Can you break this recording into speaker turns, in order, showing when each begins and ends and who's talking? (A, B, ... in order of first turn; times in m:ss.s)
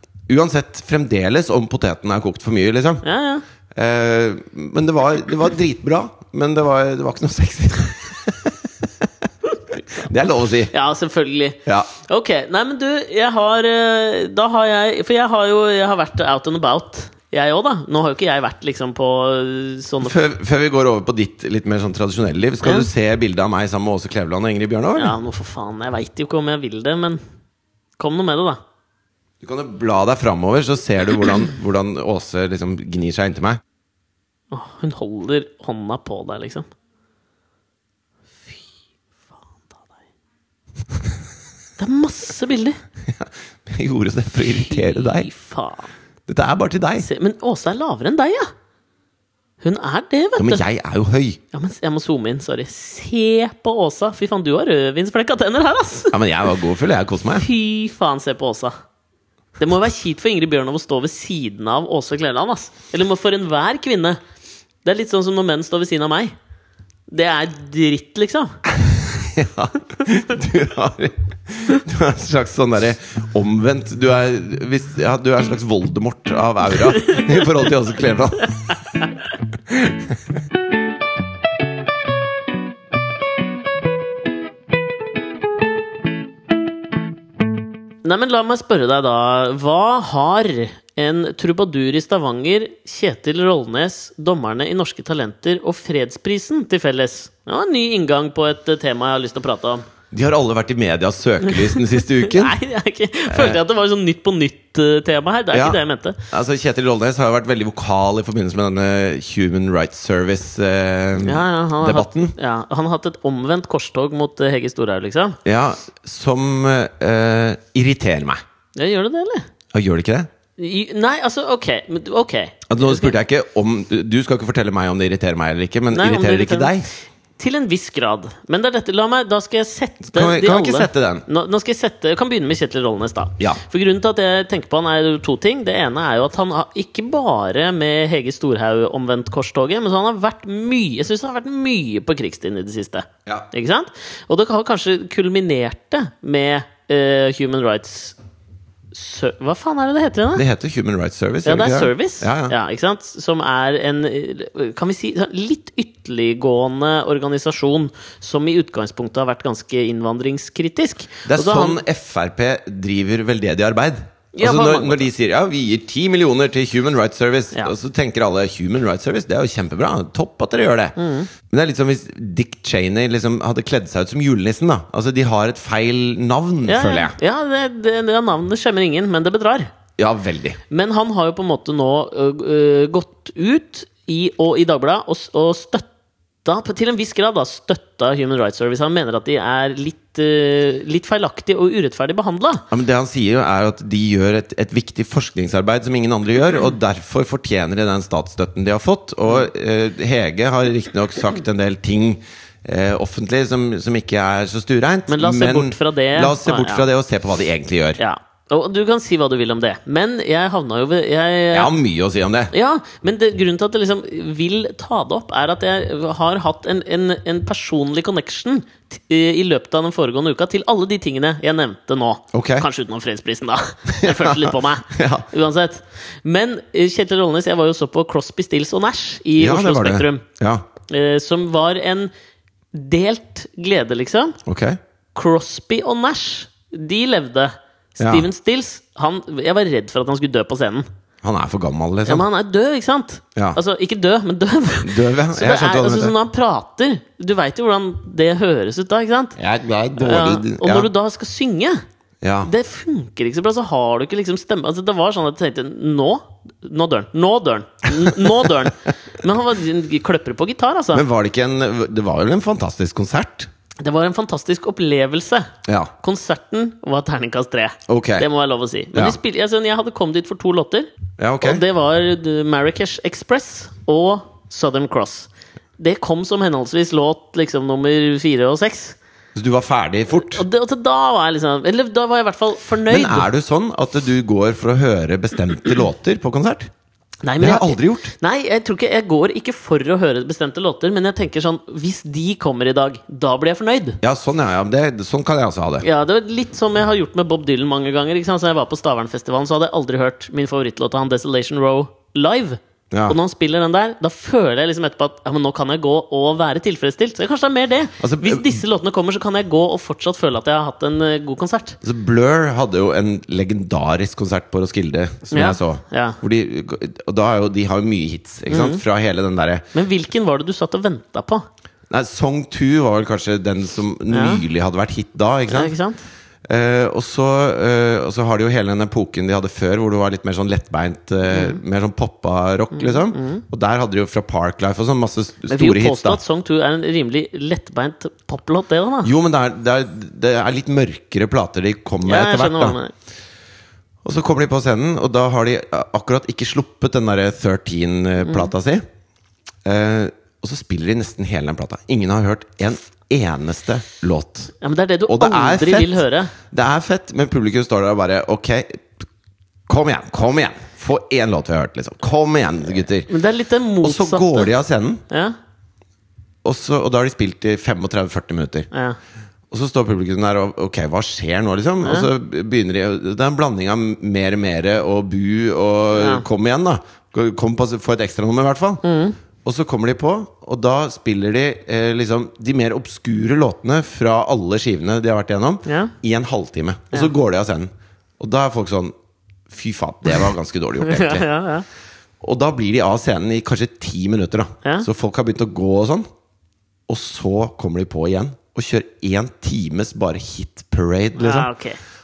0:00.3-0:03.0 A
0:03.0-0:03.4 B
0:03.7-0:08.8 A
0:09.9-0:10.7 A
0:10.7-0:20.2 B
0:20.0-0:25.2 A
0:22.6-0:22.9 B
0:25.0-0:27.2 B
0:28.0-0:28.6 B
0:29.4-0:33.6 A
0:34.5-0:36.6 B
0:41.8-0:42.8 B
0:43.1-0:45.3 A
0:44.5-0:45.9 B
0:46.3-0:47.1 A
0:47.0-0:48.5 B
0:49.6-0:50.6 B
0:50.4-0:51.4 A
0:51.5-0:56.2 B
0:56.1-0:57.5 A
0:57.4-0:58.7 B
0:59.6-1:04.2 B
1:04.8-1:06.3 B
1:07.1-1:08.6 B
1:08.7-1:18.8 A
1:17.0-1:17.3 B
1:19.7-1:20.2 A
1:28.0-1:39.8 B
1:40.1-1:42.5 A
1:41.5-1:46.2 B
1:43.3-1:43.6 A
1:45.5-1:52.3 A
1:51.2-1:55.4 B
1:55.4-1:58.4 A
1:58.8-1:59.5 B
1:59.7-2:00.3 A
2:00.6-2:03.1 B
2:02.7-2:06.9 A
2:05.9-2:06.7 B
2:07.4-2:28.2 B
2:10.1-2:11.2 A
2:28.9-2:30.4 B
2:30.3-2:32.5 A
2:31.4-2:41.8 B
2:41.3-2:57.2 A
2:44.3-2:45.1 B
2:51.0-2:51.3 B
2:56.7-2:59.7 B
3:00.0-3:00.6 A
3:00.7-3:05.9 B
3:06.4-3:12.6 B
3:12.7-3:28.0 A
3:25.1-3:26.8 B
3:28.0-3:31.7 B
3:31.5-3:32.5 A
3:32.5-3:50.2 B
3:42.3-3:42.6 A
3:43.9-3:45.2 A
3:49.4-3:50.6 A
3:50.9-3:52.1 B
3:52.7-3:54.4 B
3:54.4-3:54.8 A
3:55.1-4:00.8 B
3:58.0-3:58.3 A
4:01.2-4:02.2 A
4:02.0-4:09.4 B
4:04.8-4:06.1 A
4:09.4-4:10.9 A
4:10.0-4:11.8 B
4:12.2-4:12.5 A
4:12.4-4:21.0 B
4:18.0-4:18.7 A
4:20.9-4:23.5 A
4:23.8-4:30.9 B
4:25.6-4:25.9 A
4:27.9-4:28.3 A
4:31.2-4:31.6 A
4:31.4-4:39.0 B
4:39.3-4:40.4 A
4:40.2-4:43.3 B
4:42.9-4:46.7 A
4:47.2-4:54.0 B
4:47.4-4:48.1 A
4:54.0-4:55.8 A
4:55.8-5:11.8 B
5:02.9-5:03.2 A
5:08.0-5:08.6 A
5:11.8-5:19.6 A
5:15.3-5:16.2 B
5:18.5-5:18.8 B
5:19.7-5:21.4 B
5:21.9-5:25.7 A
5:24.1-5:24.4 B
5:25.5-5:26.0 B
5:26.5-5:36.2 A
5:31.3-5:31.6 B
5:32.7-5:33.4 B
5:35.5-5:39.1 B
5:39.0-5:42.8 A
5:42.0-5:42.9 B
5:44.0-5:48.8 A
5:49.6-5:54.5 A
5:54.6-5:56.3 B
5:55.1-5:58.9 A
5:59.7-6:03.1 A
6:03.1-6:04.5 B
6:03.8-6:05.0 A
6:05.1-6:05.3 B
6:06.4-6:08.7 A
6:08.7-6:09.0 B
6:09.5-6:18.8 A
6:11.8-6:12.1 B
6:15.9-6:16.2 B
6:18.8-6:19.2 B
6:19.4-6:28.9 A
6:25.6-6:25.9 B
6:29.5-6:31.3 A
6:30.8-6:31.6 B
6:32.2-6:36.1 A
6:36.9-6:41.5 A
6:41.2-6:41.8 B